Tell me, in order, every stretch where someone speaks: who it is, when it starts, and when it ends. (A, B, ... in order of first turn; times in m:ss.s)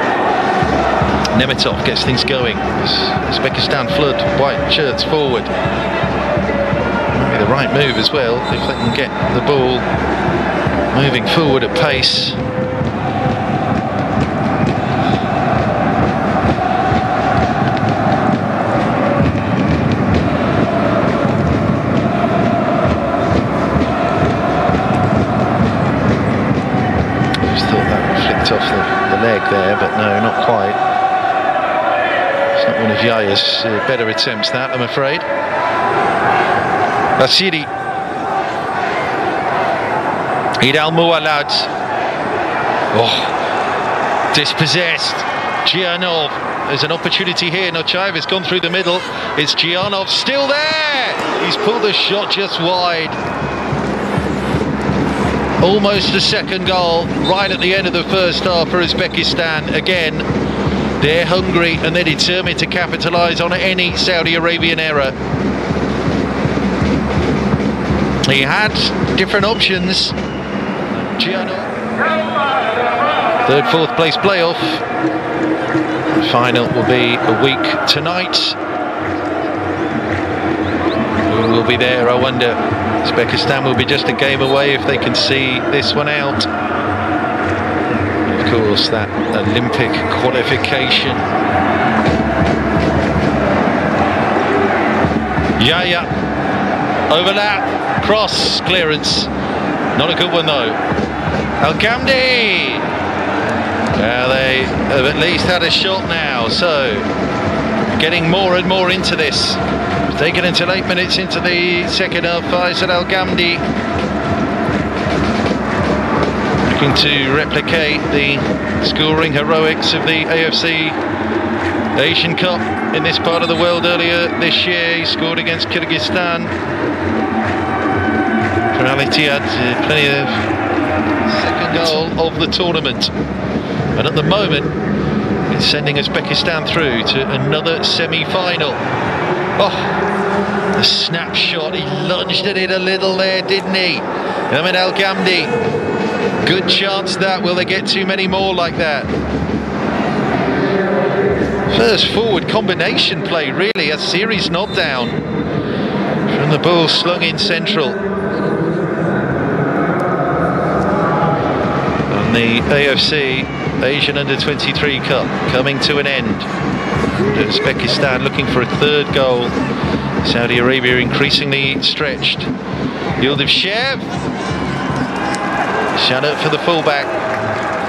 0:01.3-0:05.5 A
0:07.1-0:09.9 A
0:10.9-0:12.4 A
0:27.4-0:30.8 A
0:32.5-0:35.3 A
0:37.2-0:37.7 A
0:40.6-0:41.7 A
0:42.9-0:43.4 A
0:44.3-0:53.2 A
0:55.6-1:00.2 A
1:01.0-1:05.1 A
1:08.2-1:10.1 A
1:11.2-1:11.7 A
1:13.4-1:14.8 A
1:16.1-1:18.6 A
1:21.3-1:26.5 A
1:28.2-1:31.3 A
1:35.6-1:36.1 A
1:37.1-1:39.3 A
1:39.9-1:40.8 A
1:41.6-1:42.9 A
1:43.9-1:47.1 A
1:47.9-1:53.6 A
1:56.6-2:01.0 A
2:02.0-2:06.6 A
2:08.7-2:10.5 A
2:11.2-2:13.1 A
2:13.9-2:14.7 A
2:15.5-2:18.8 A
2:19.6-2:20.0 A
2:20.8-2:25.5 A
2:26.4-2:29.1 A
2:31.7-2:35.2 A
2:36.3-2:38.0 A
2:42.1-2:46.5 A
2:47.3-2:49.6 A
2:50.2-2:52.5 A
2:53.2-2:54.1 A
2:55.9-2:57.1 A